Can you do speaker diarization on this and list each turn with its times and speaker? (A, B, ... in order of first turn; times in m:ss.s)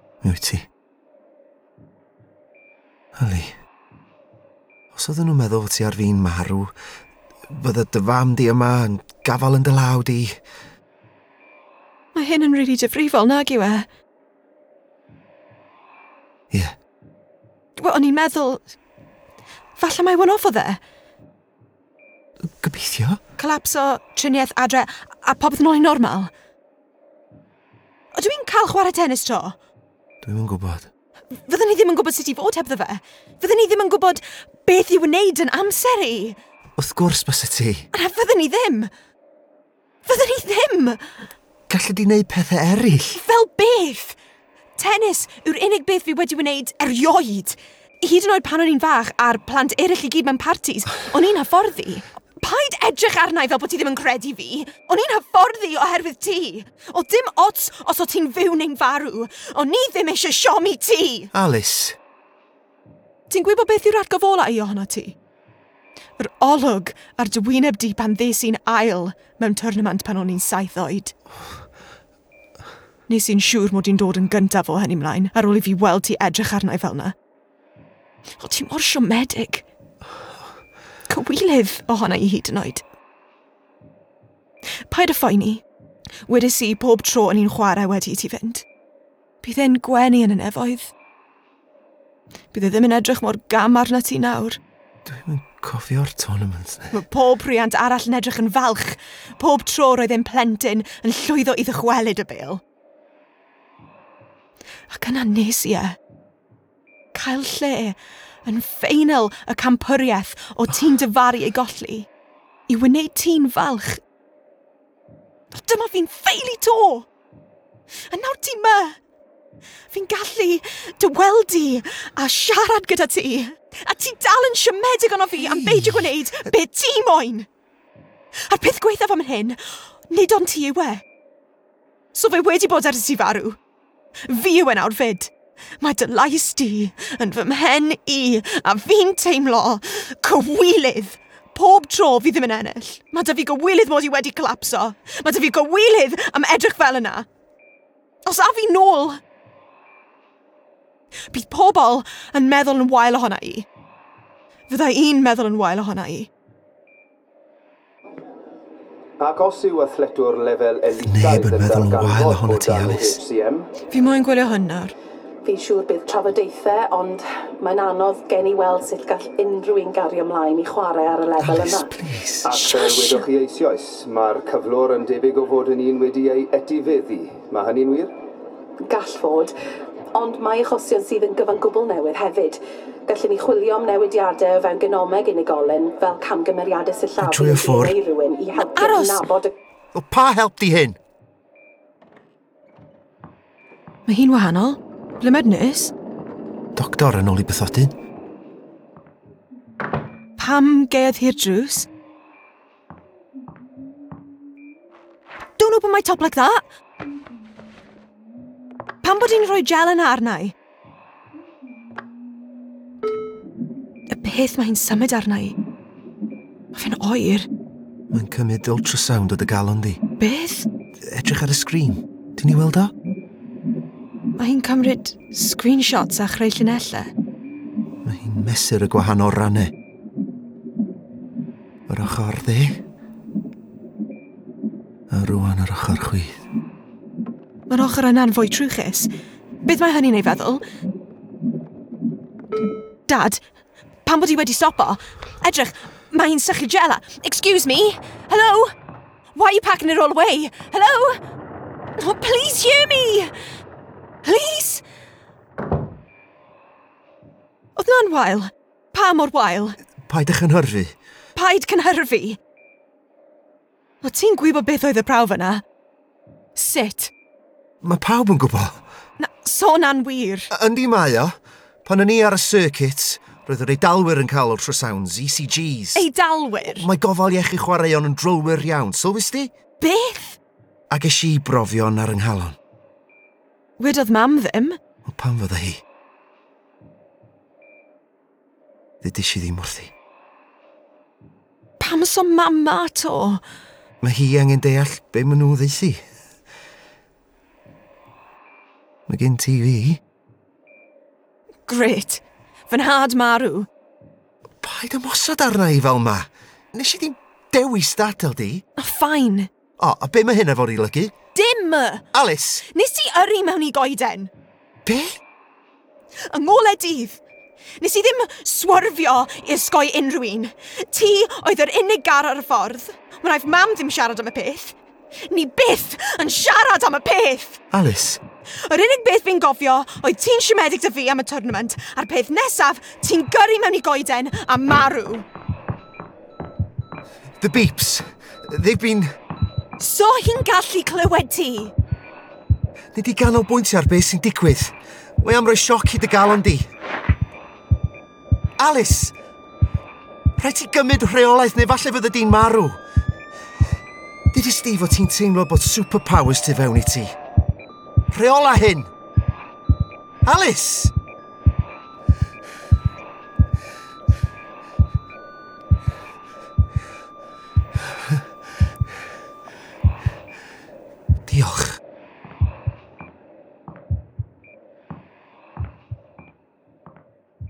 0:00.2-0:00.7 A
0:03.1-0:03.6 A
0:04.9-0:06.7 A
0:07.5-0:10.4 A
0:12.1-0:13.9 B
0:16.5-0:16.8 A
0:17.8-0:18.7 B
0:19.8-0:20.8 B
0:22.4-0:23.2 A
0:23.4-0:26.3 B
0:28.1-0:29.6 B
0:30.2-0:30.9 A
0:31.3-0:36.4 B
0:36.8-0:37.9 A
0:37.9-0:38.9 B
0:40.0-0:41.0 B
0:41.7-0:43.2 A
0:43.1-0:44.2 B
0:44.8-1:01.3 B
1:01.3-1:02.0 A
1:03.3-1:05.2 B
1:06.2-1:11.1 B
1:13.1-1:17.1 B
1:18.4-1:19.6 B
1:21.1-1:22.8 B
1:24.9-1:25.6 B
1:26.2-1:28.6 B
1:29.4-1:30.9 B
1:32.5-1:34.6 B
1:35.0-1:37.0 A
1:36.9-1:42.6 B
1:44.9-1:46.0 B
1:47.1-1:52.1 B
1:52.7-1:54.0 B
1:55.5-1:57.1 B
1:58.0-1:59.0 B
1:59.9-2:07.5 B
2:05.4-2:06.2 A
2:08.5-2:11.0 B
2:12.1-2:13.6 B
2:14.2-2:27.3 B
2:28.2-2:29.2 B
2:31.3-2:33.7 B
2:34.7-2:36.3 B
2:39.2-2:43.7 C
2:41.0-2:43.2 A
2:43.9-2:44.9 B
2:45.4-2:51.9 D
2:51.4-2:52.5 A
2:52.4-2:58.1 C
2:52.5-2:53.3 B
2:58.9-2:59.5 D
3:00.1-3:09.5 D
3:07.2-3:08.0 A
3:08.6-3:09.2 B
3:09.9-3:11.0 A
3:14.0-3:15.9 B
3:16.7-3:17.9 A
3:20.4-3:21.9 B
3:25.6-3:26.6 B
3:29.0-3:30.5 B
3:34.1-3:35.6 B
3:36.7-3:37.5 B
3:38.1-3:40.0 A
3:40.2-3:40.7 B
3:41.0-3:42.9 A
3:44.4-3:47.1 B
3:48.0-3:49.7 A
3:51.9-3:52.8 A
3:55.1-3:56.4 A
3:57.7-3:59.1 B
3:59.6-4:00.6 B
4:03.1-4:03.4 B
4:04.0-4:08.7 B
4:09.3-4:11.2 B
4:12.0-4:13.3 B
4:14.2-4:14.8 B
4:17.8-4:19.8 B
4:20.0-4:21.0 A
4:21.3-4:22.4 B
4:24.0-4:25.6 B
4:26.5-4:27.1 B
4:27.8-4:28.8 A
4:29.2-4:30.5 B
4:30.5-4:36.0 A
4:35.9-4:36.9 B
4:36.7-4:39.5 A
4:39.8-4:40.4 B
4:40.9-4:42.6 A
4:43.8-4:44.8 B
4:45.0-4:45.8 A
4:49.0-4:49.9 A
4:51.8-4:53.4 B
4:54.0-4:56.0 A
4:59.1-5:00.0 A
5:01.7-5:03.7 B
5:04.6-5:08.6 A
5:08.8-5:09.5 B
5:09.8-5:11.1 A
5:11.3-5:12.0 B
5:12.1-5:12.6 A
5:12.6-5:14.3 B
5:14.8-5:15.2 A
5:16.3-5:17.2 B
5:17.8-5:27.6 B
5:27.7-5:28.2 A
5:28.6-5:35.2 B
5:37.4-5:39.1 A
5:39.8-5:41.7 B
5:42.9-5:46.7 A
5:48.6-5:49.1 A
5:50.4-5:52.8 A
5:54.3-5:57.2 A
5:58.1-5:58.9 A
6:00.2-6:00.9 A
6:11.3-6:11.8 A